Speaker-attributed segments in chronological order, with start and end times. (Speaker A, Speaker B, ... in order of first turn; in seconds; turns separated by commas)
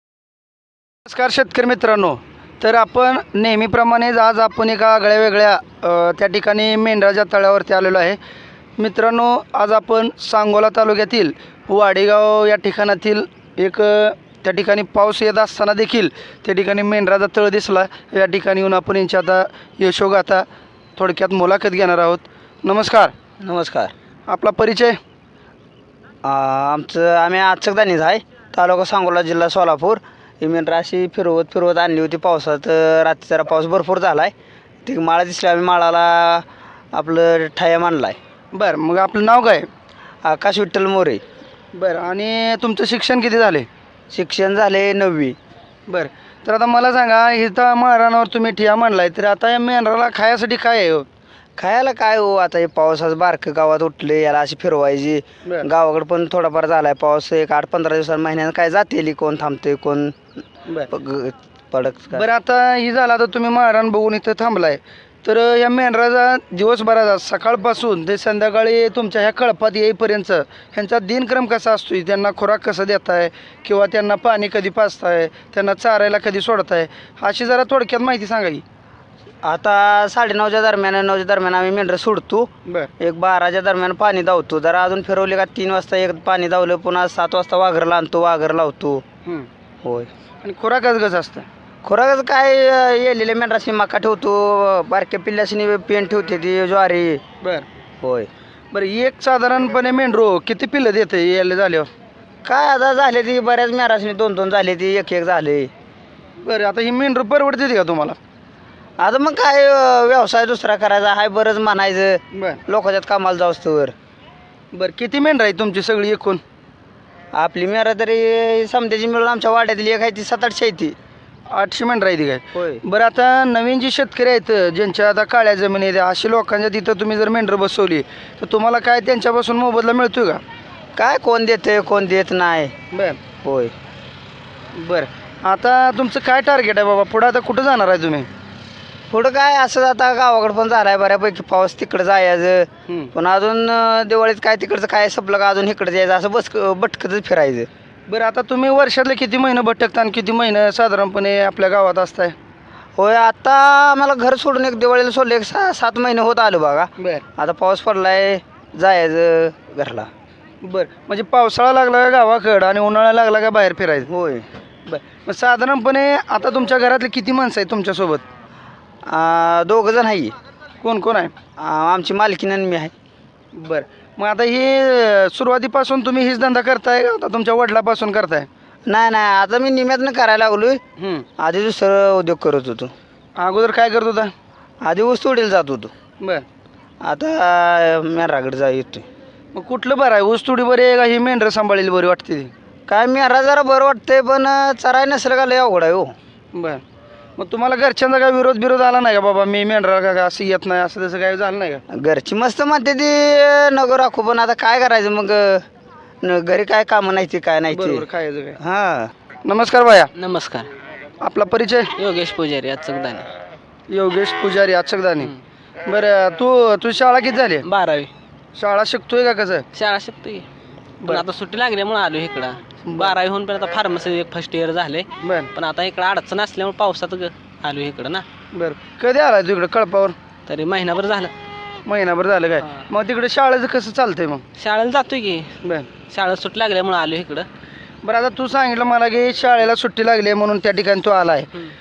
Speaker A: 1.1-8.2, Speaker A: 8.8-20.5, Speaker A: 21.0-23.1, Speaker B: 23.4-23.9, Speaker A: 24.3-25.0, Speaker B: 26.2-34.3, Speaker B: 34.9-38.2, Speaker A: 38.5-39.7, Speaker B: 40.2-41.2, Speaker A: 41.7-43.7, Speaker B: 44.1-45.4, Speaker A: 45.9-51.1, Speaker B: 51.6-60.2, Speaker B: 60.9-62.3, Speaker A: 62.1-78.6, Speaker B: 79.4-89.0, Speaker B: 89.8-90.1, Speaker A: 90.4-91.5, Speaker B: 91.8-97.2, Speaker B: 98.0-98.3, Speaker A: 98.7-101.9, Speaker B: 102.4-105.7, Speaker A: 106.4-108.2, Speaker B: 109.0-113.9, Speaker A: 112.3-112.6, Speaker A: 114.7-116.4, Speaker B: 117.3-121.0, Speaker A: 121.5-130.4, Speaker B: 122.5-122.8, Speaker B: 131.0-132.8, Speaker A: 132.9-133.2, Speaker B: 133.4-133.7, Speaker A: 134.8-138.3, Speaker B: 139.1-147.7, Speaker A: 142.9-143.1, Speaker A: 148.1-152.3, Speaker B: 153.0-160.1, Speaker A: 157.0-157.2, Speaker A: 160.6-164.1, Speaker B: 164.1-164.5, Speaker A: 164.9-168.2, Speaker B: 169.1-170.3, Speaker A: 170.8-171.3, Speaker B: 171.6-172.9, Speaker A: 173.6-178.5, Speaker B: 178.9-180.8, Speaker A: 181.0-181.3, Speaker B: 181.4-182.9, Speaker A: 183.4-184.3, Speaker B: 184.8-185.9, Speaker B: 187.0-189.1, Speaker A: 189.5-192.5, Speaker B: 192.9-196.1, Speaker A: 196.5-196.8, Speaker A: 197.4-201.8, Speaker B: 201.9-205.7, Speaker B: 206.2-209.1, Speaker A: 207.7-208.6, Speaker A: 209.4-210.1, Speaker C: 210.2-210.7, Speaker A: 211.2-211.9, Speaker C: 212.0-213.3, Speaker A: 213.9-215.3, Speaker A: 215.8-217.7, Speaker C: 217.6-218.1, Speaker A: 218.6-219.7, Speaker C: 219.7-220.4, Speaker C: 221.1-228.2, Speaker A: 222.9-223.2, Speaker A: 225.2-225.5, Speaker A: 228.5-230.2, Speaker C: 230.5-231.3, Speaker A: 231.9-234.4, Speaker C: 234.6-235.5, Speaker A: 235.6-235.9, Speaker C: 236.1-237.5, Speaker A: 238.0-241.5